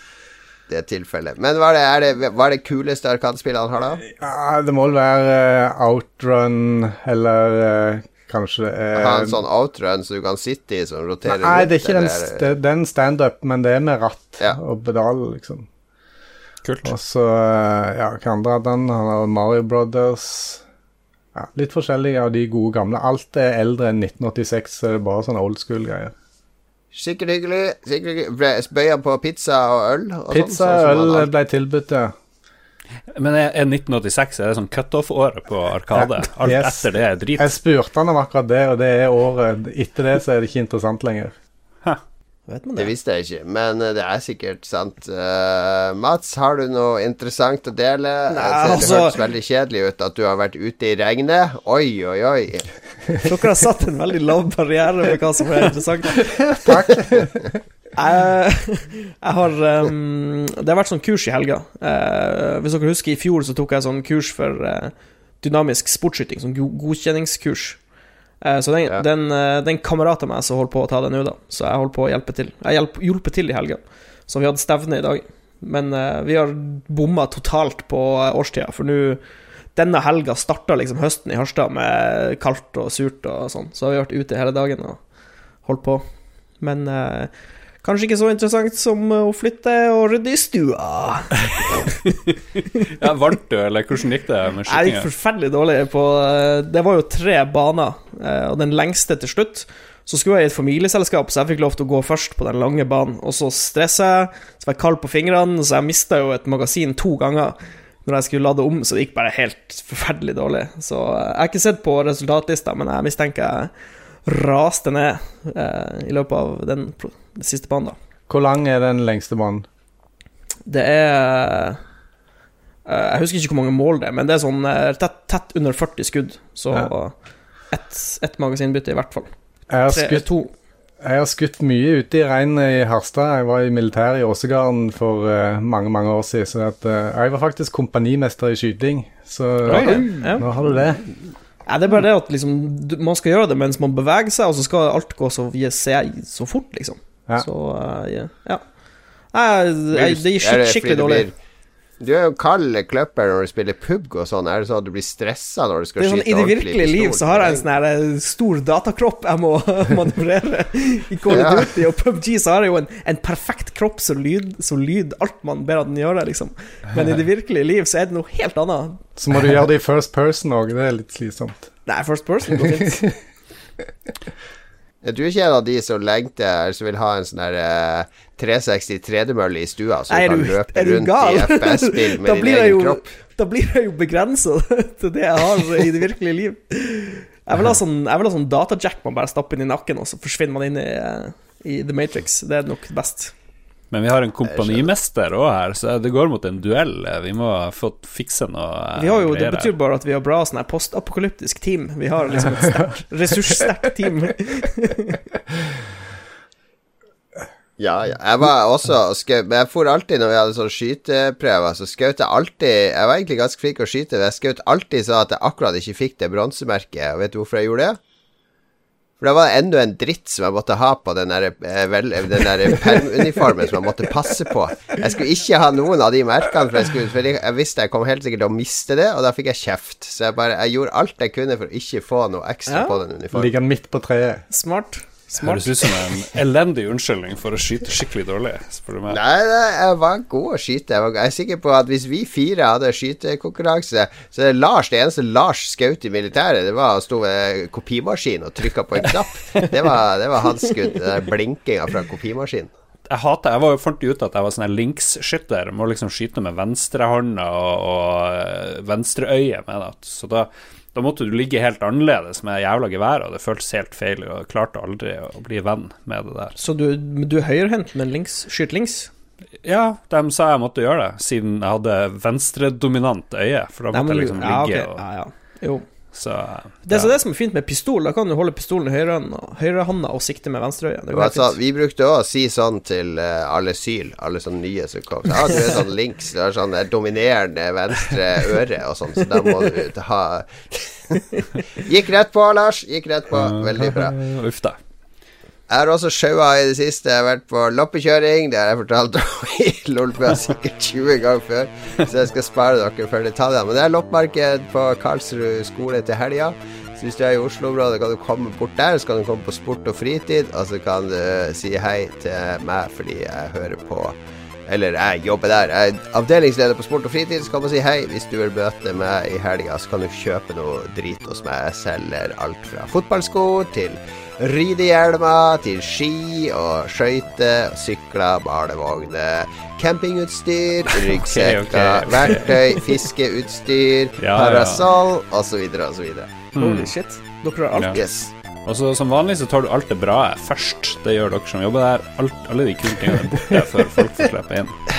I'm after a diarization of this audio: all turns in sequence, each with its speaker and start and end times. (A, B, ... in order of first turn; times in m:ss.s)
0:00.7-0:04.0 A
0:04.0-0:09.4 B
0:08.9-0:12.5 A
0:11.2-0:15.7 B
0:16.6-0:16.9 C
0:16.8-0:20.6 B
0:21.3-0:26.1 B
0:26.9-0:31.3 A
0:30.3-0:32.1 B
0:33.1-0:37.5 C
0:35.9-0:41.3 B
0:42.5-0:42.9 D
0:42.8-0:52.7 A
0:48.3-0:49.2 D
0:53.2-0:56.7 D
0:56.5-0:57.5 B
0:58.0-1:07.8 D
1:08.4-1:19.2 D
1:19.7-1:31.4 D
1:32.0-1:35.1 C
1:34.7-1:53.7 D
1:54.2-1:58.0 D
1:58.3-1:59.6 B
2:00.7-2:01.8 D
2:02.8-2:07.1 D
2:07.7-2:09.3 D
2:09.7-2:10.2 B
2:09.9-2:10.5 D
2:11.0-2:21.0 B
2:19.6-2:20.2 C
2:19.8-2:20.4 D
2:21.7-2:28.6 D
2:29.3-2:31.3 D
2:29.9-2:31.3 A
2:32.0-2:37.6 A
2:36.0-2:49.0 D
2:41.3-2:41.7 A
2:49.2-2:51.7 B
2:51.8-2:53.0 D
2:52.8-2:53.1 B
2:55.0-3:03.1 A
3:00.1-3:13.3 D
3:13.9-3:19.7 C
3:14.4-3:14.9 A
3:19.0-3:25.2 D
3:27.8-3:38.0 A
3:39.2-3:53.5 A
3:52.7-3:53.0 D
3:53.3-3:54.4 B
3:54.5-3:56.0 D
3:55.4-3:59.2 C
3:59.1-4:12.7 A
4:13.1-4:26.6 C
4:26.6-4:29.1 D
4:29.6-4:35.0 C
4:33.9-4:35.8 D
4:36.1-4:37.1 C
4:36.8-4:41.5 D
4:41.1-4:54.1 A
4:53.3-4:54.8 C
4:55.7-5:36.4 A
5:31.0-5:32.8 C
5:34.2-5:34.8 C
5:36.5-5:36.9 C
5:36.6-5:38.0 D
5:37.9-5:38.3 A
5:38.6-5:44.8 C